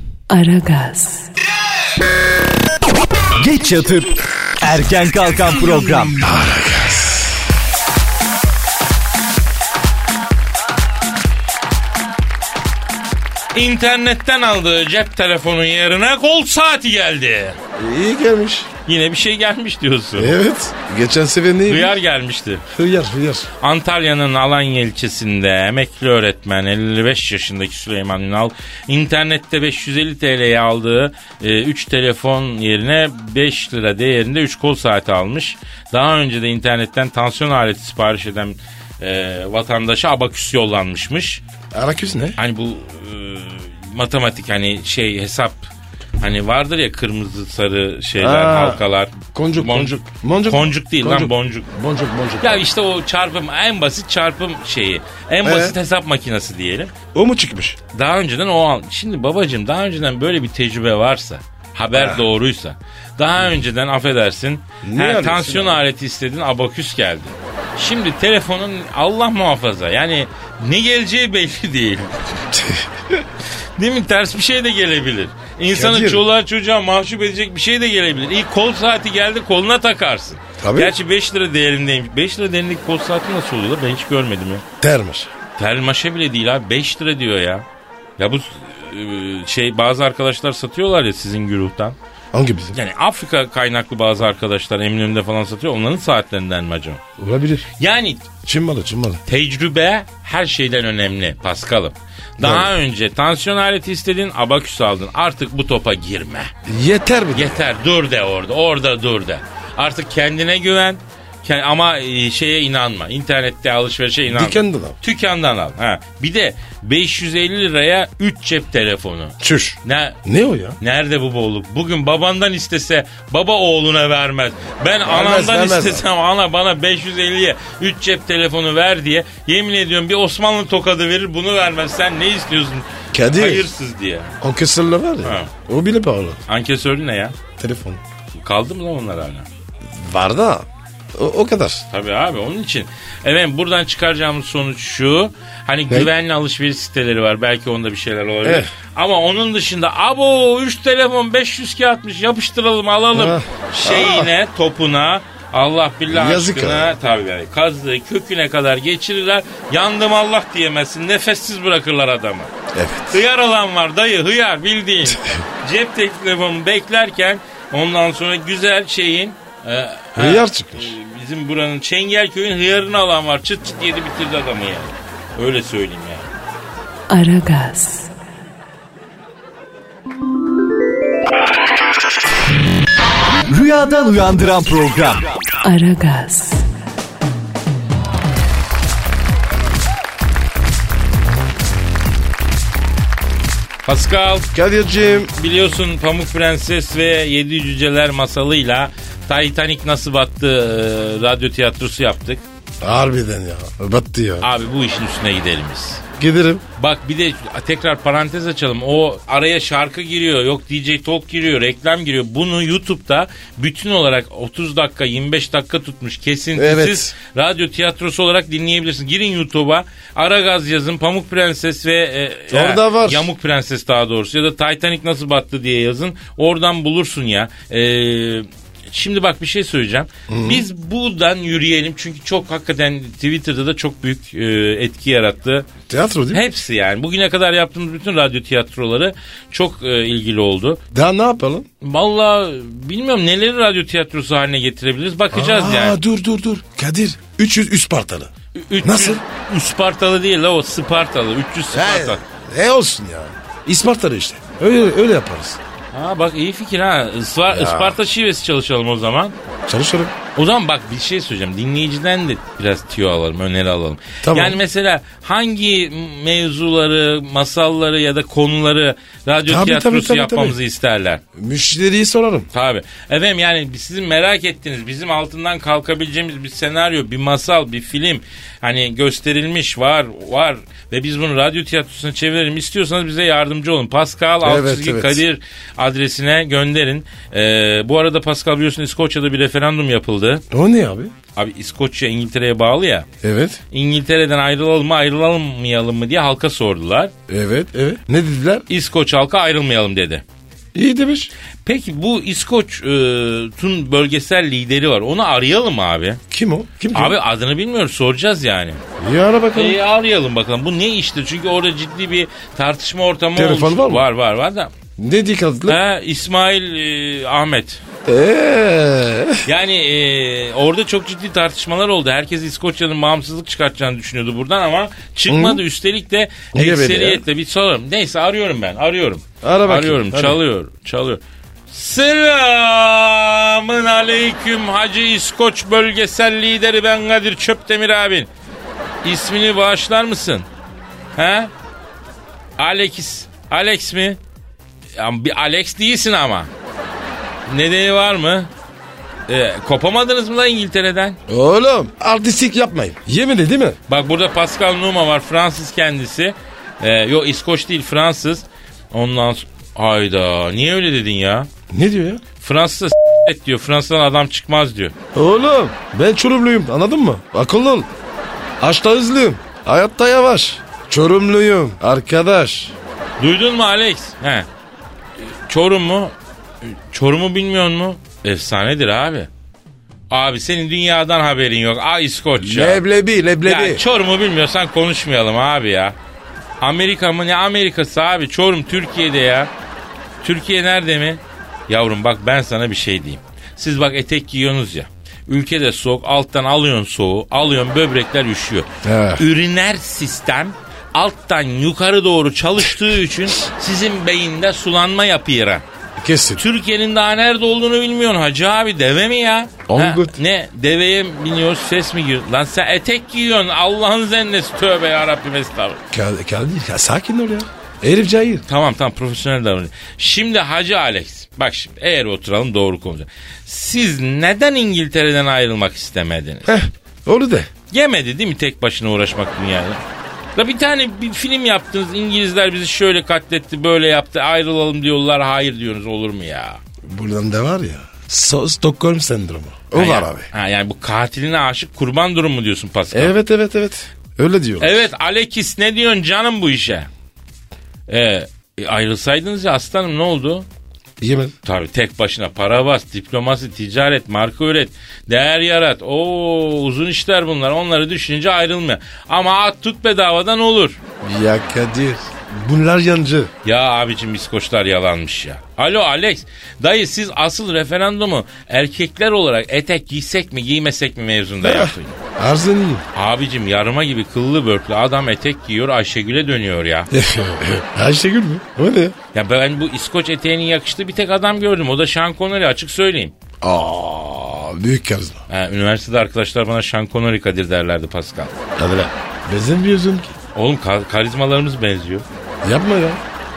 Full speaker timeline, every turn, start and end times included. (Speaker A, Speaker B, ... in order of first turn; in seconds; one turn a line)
Speaker A: 0.3-1.3
Speaker B: 3.4-6.2
Speaker C: 6.2-7.3
Speaker D: 13.5-17.6
Speaker C: 17.8-18.7
Speaker D: 18.9-20.4
Speaker C: 20.2-22.0
Speaker D: 21.7-22.6
Speaker C: 22.7-23.5
Speaker D: 23.6-41.4
Speaker C: 41.7-42.4
Speaker D: 42.4-45.7
Speaker D: 46.2-51.7
Speaker C: 48.2-52.6
Speaker D: 52.4-56.9
Speaker C: 55.4-55.8
Speaker C: 57.1-57.8
Speaker D: 57.9-72.2
Speaker C: 61.9-62.2
Speaker C: 64.8-65.8
Speaker C: 72.5-73.2
Speaker D: 73.8-84.7
Speaker C: 75.7-76.2
Speaker C: 80.6-80.9
Speaker C: 84.8-85.3
Speaker D: 85.6-87.7
Speaker D: 88.2-92.0
Speaker C: 92.3-92.8
Speaker D: 92.7-97.0
Speaker C: 97.2-97.7
Speaker D: 97.8-98.3
Speaker C: 98.4-99.2
Speaker D: 99.3-106.5
Speaker C: 102.4-102.7
Speaker C: 106.7-107.7
Speaker D: 107.3-120.2
Speaker C: 114.3-115.0
Speaker C: 119.4-120.8
Speaker D: 120.8-134.4
Speaker C: 125.0-126.0
Speaker C: 133.1-133.7
Speaker C: 134.4-136.4
Speaker D: 135.2-135.5
Speaker D: 136.5-137.4
Speaker C: 137.6-138.0
Speaker D: 138.4-139.5
Speaker C: 139.9-141.8
Speaker D: 141.9-162.5
Speaker C: 148.4-148.7
Speaker C: 153.1-154.3
Speaker C: 156.1-156.9
Speaker C: 162.7-163.2
Speaker D: 163.1-176.3
Speaker C: 170.2-170.9
Speaker A: 177.1-178.1
Speaker B: 183.5-185.3
Speaker A: 185.6-186.7
Speaker D: 193.9-194.5
Speaker C: 194.5-195.3
Speaker D: 195.4-202.4
Speaker C: 202.8-204.5
Speaker D: 204.4-206.0
Speaker C: 206.2-206.6
Speaker D: 206.8-235.7
Speaker C: 216.6-217.1
Speaker C: 222.5-223.3
Speaker C: 230.3-230.7
Speaker C: 235.9-236.4
Speaker D: 236.3-240.8
Speaker C: 240.9-241.7
Speaker D: 241.8-246.0
Speaker C: 245.3-249.2
Speaker D: 248.6-252.2
Speaker C: 251.7-255.6
Speaker D: 255.9-259.4
Speaker C: 257.5-258.0
Speaker C: 259.7-260.1
Speaker D: 260.4-271.2
Speaker C: 264.2-264.6
Speaker C: 269.5-270.6
Speaker C: 271.4-272.5
Speaker D: 272.5-290.4
Speaker C: 284.4-285.2
Speaker C: 290.5-291.1
Speaker D: 291.4-293.1
Speaker C: 293.2-293.6
Speaker D: 293.7-297.1
Speaker C: 297.3-298.6
Speaker D: 298.7-300.2
Speaker C: 300.7-301.3
Speaker D: 301.6-306.2
Speaker C: 306.3-307.2
Speaker D: 306.9-308.8
Speaker C: 309.0-309.8
Speaker D: 309.6-314.7
Speaker C: 313.4-314.1
Speaker C: 315.0-315.8
Speaker D: 315.7-317.8
Speaker C: 318.1-319.5
Speaker D: 319.4-338.3
Speaker C: 325.3-325.6
Speaker C: 326.5-327.2
Speaker C: 329.4-330.4
Speaker D: 339.0-340.5
Speaker D: 341.2-341.5
Speaker D: 342.6-344.2
Speaker D: 345.0-346.5
Speaker D: 347.5-348.5
Speaker D: 349.3-351.2
Speaker C: 351.3-353.8
Speaker D: 353.9-361.5
Speaker C: 361.7-362.2
Speaker D: 362.4-364.9
Speaker C: 365.1-367.9
Speaker C: 368.6-372.8
Speaker D: 373.2-374.5
Speaker D: 375.2-379.3
Speaker D: 380.1-382.8
Speaker C: 382.4-383.8
Speaker D: 383.4-386.0
Speaker D: 386.6-389.5
Speaker D: 390.2-405.6
Speaker C: 398.8-399.2
Speaker C: 406.0-406.4
Speaker D: 406.4-415.8
Speaker C: 409.7-410.2
Speaker C: 415.9-418.4
Speaker D: 418.5-426.5
Speaker C: 426.5-427.5
Speaker D: 427.7-429.8
Speaker D: 430.4-436.6
Speaker C: 436.8-440.3
Speaker D: 439.7-443.1
Speaker C: 442.9-444.8
Speaker D: 444.6-446.9
Speaker D: 447.9-450.5
Speaker C: 451.0-451.4
Speaker D: 451.4-460.8
Speaker C: 461.0-463.3
Speaker D: 463.4-472.0
Speaker C: 471.4-472.8
Speaker D: 472.9-476.9
Speaker C: 476.9-479.0
Speaker D: 479.1-483.1
Speaker C: 483.4-485.2
Speaker D: 485.3-488.4
Speaker C: 488.6-490.2
Speaker D: 490.3-492.1
Speaker C: 492.4-493.0